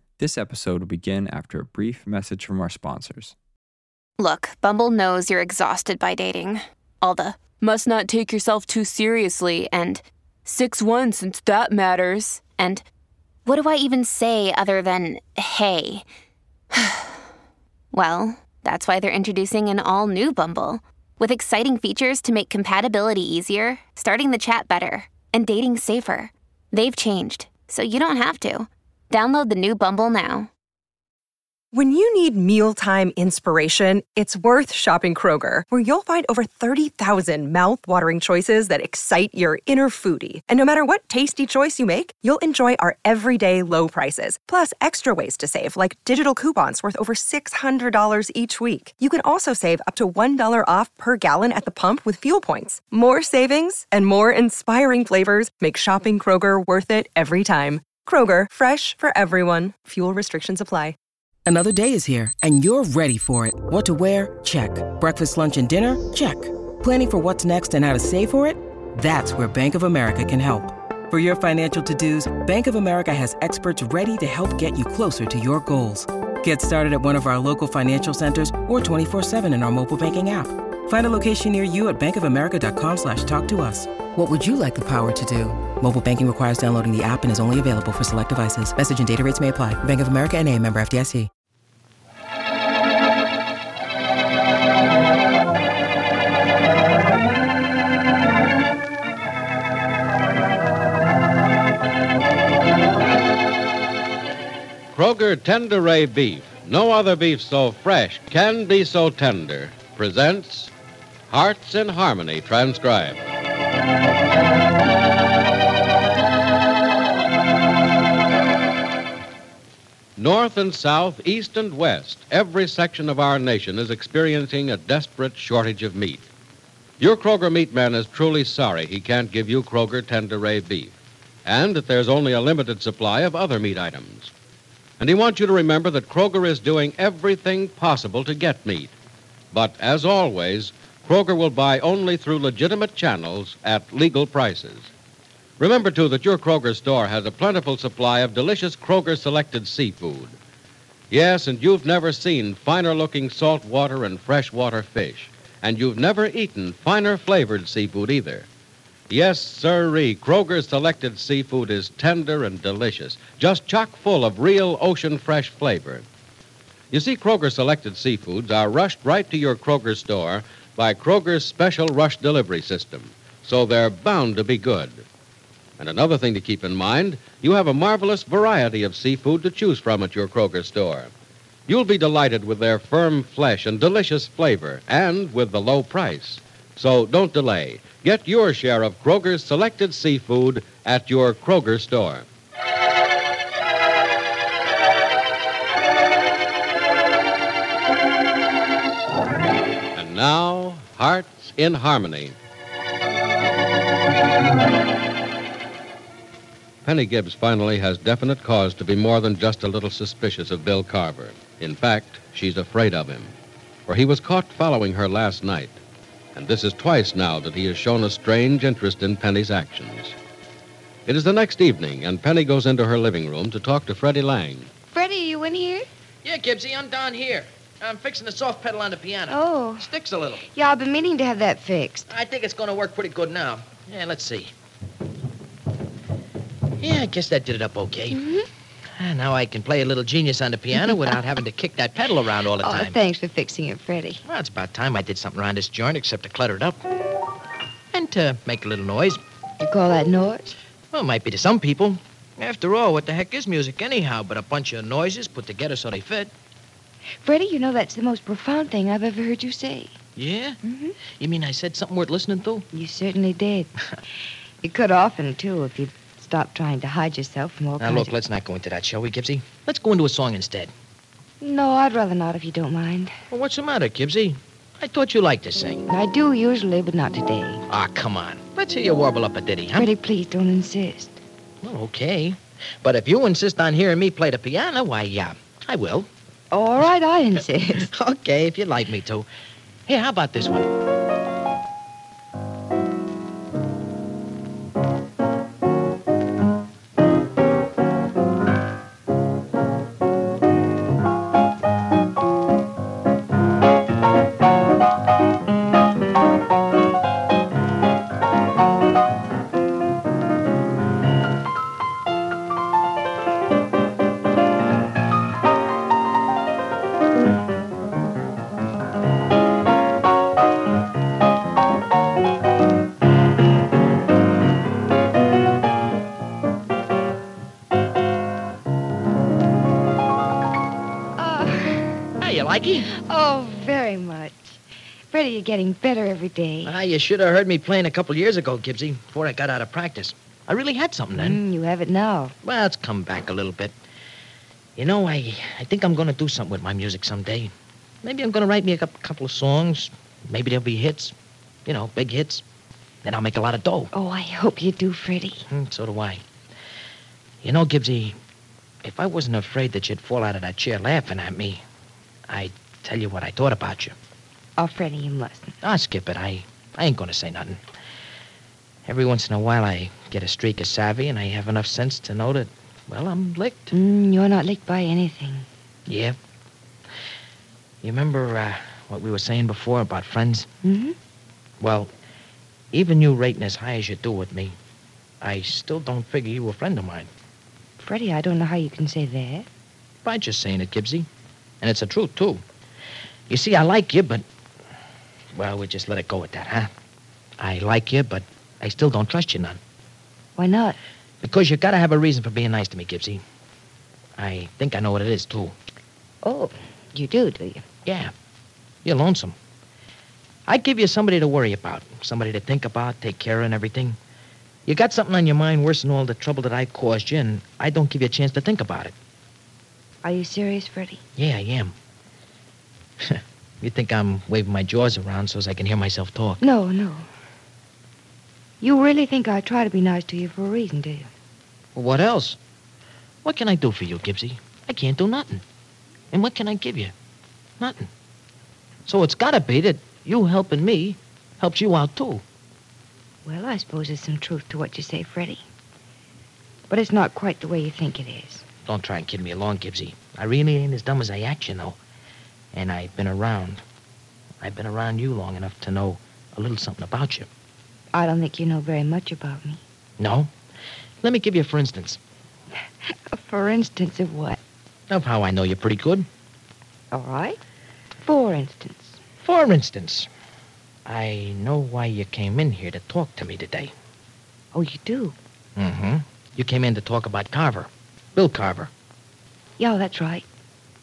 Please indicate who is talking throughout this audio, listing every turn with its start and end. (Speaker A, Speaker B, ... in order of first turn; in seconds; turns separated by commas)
Speaker A: 0.2-3.4, Speaker B: 4.2-12.8, Speaker B: 13.5-16.1, Speaker B: 16.8-17.1, Speaker B: 17.9-30.5, Speaker C: 31.7-61.0, Speaker D: 61.5-91.3, Speaker E: 104.9-110.7, Speaker E: 111.3-113.3, Speaker E: 120.2-126.3, Speaker E: 127.0-130.9, Speaker E: 131.5-134.3, Speaker E: 135.0-138.9, Speaker E: 139.5-144.9, Speaker E: 145.6-150.4, Speaker E: 151.1-158.5, Speaker E: 159.1-166.1, Speaker E: 166.9-175.0, Speaker E: 175.8-181.1, Speaker E: 181.7-192.3, Speaker E: 200.0-202.4, Speaker E: 206.8-213.3, Speaker E: 213.9-215.8, Speaker E: 216.3-220.2, Speaker E: 221.1-224.7, Speaker F: 224.9-225.9, Speaker G: 226.2-230.5, Speaker F: 229.3-229.9, Speaker F: 230.5-232.1, Speaker G: 232.1-234.5, Speaker G: 236.8-238.2, Speaker F: 238.1-238.4, Speaker G: 239.0-243.0, Speaker F: 242.6-244.2, Speaker G: 244.3-246.8, Speaker G: 247.9-249.2, Speaker F: 249.6-250.6, Speaker G: 250.9-256.3, Speaker F: 257.2-259.9, Speaker G: 260.2-262.7, Speaker F: 260.6-261.0, Speaker F: 262.7-263.7, Speaker F: 264.6-268.2, Speaker G: 267.8-270.7, Speaker F: 271.4-273.1, Speaker G: 273.3-275.9, Speaker F: 275.9-277.6, Speaker G: 277.7-279.9, Speaker F: 279.8-281.2, Speaker G: 281.6-286.1, Speaker F: 286.5-287.9, Speaker G: 287.8-289.3, Speaker G: 289.9-290.7, Speaker F: 331.2-332.1, Speaker G: 332.2-332.9, Speaker F: 332.9-334.6, Speaker F: 335.1-336.8, Speaker G: 336.6-341.4, Speaker F: 341.2-342.4, Speaker G: 342.4-343.7, Speaker G: 344.8-347.5, Speaker G: 348.0-351.1, Speaker G: 351.7-352.4, Speaker G: 353.0-353.9, Speaker F: 353.9-355.4, Speaker G: 355.5-356.2, Speaker G: 357.4-358.2, Speaker G: 358.8-361.6, Speaker G: 362.3-363.9, Speaker F: 364.6-365.6, Speaker G: 365.6-367.6, Speaker G: 368.9-373.7, Speaker F: 373.7-375.5, Speaker G: 375.9-376.1, Speaker G: 377.8-380.5, Speaker F: 380.6-381.0, Speaker G: 381.6-381.9, Speaker G: 382.7-384.6, Speaker G: 385.2-387.1, Speaker F: 387.8-389.5, Speaker G: 390.0-391.1, Speaker G: 391.6-392.4, Speaker G: 393.3-394.2, Speaker G: 395.4-396.7, Speaker G: 397.4-399.6, Speaker F: 400.4-400.8, Speaker G: 401.2-403.2, Speaker G: 404.2-405.6, Speaker F: 406.2-407.6, Speaker G: 407.9-408.1, Speaker G: 408.8-409.4, Speaker G: 410.5-414.0, Speaker G: 414.7-418.9, Speaker F: 420.0-421.0, Speaker G: 421.2-421.7, Speaker G: 423.0-426.4, Speaker F: 426.4-427.1, Speaker F: 428.6-431.1, Speaker G: 431.8-432.4, Speaker G: 433.2-435.4, Speaker G: 436.1-436.9, Speaker G: 437.6-437.9, Speaker G: 438.9-442.2, Speaker F: 443.2-445.4, Speaker F: 446.7-448.4, Speaker G: 448.7-451.8, Speaker G: 452.5-453.6, Speaker G: 454.4-457.3, Speaker F: 457.9-459.6, Speaker G: 460.0-460.3, Speaker G: 461.0-462.0, Speaker F: 462.8-464.4, Speaker G: 464.9-466.1, Speaker F: 466.9-467.4, Speaker F: 468.0-469.0, Speaker G: 469.2-470.1, Speaker G: 470.9-473.7, Speaker F: 474.5-475.1, Speaker G: 475.6-478.7, Speaker F: 479.6-480.2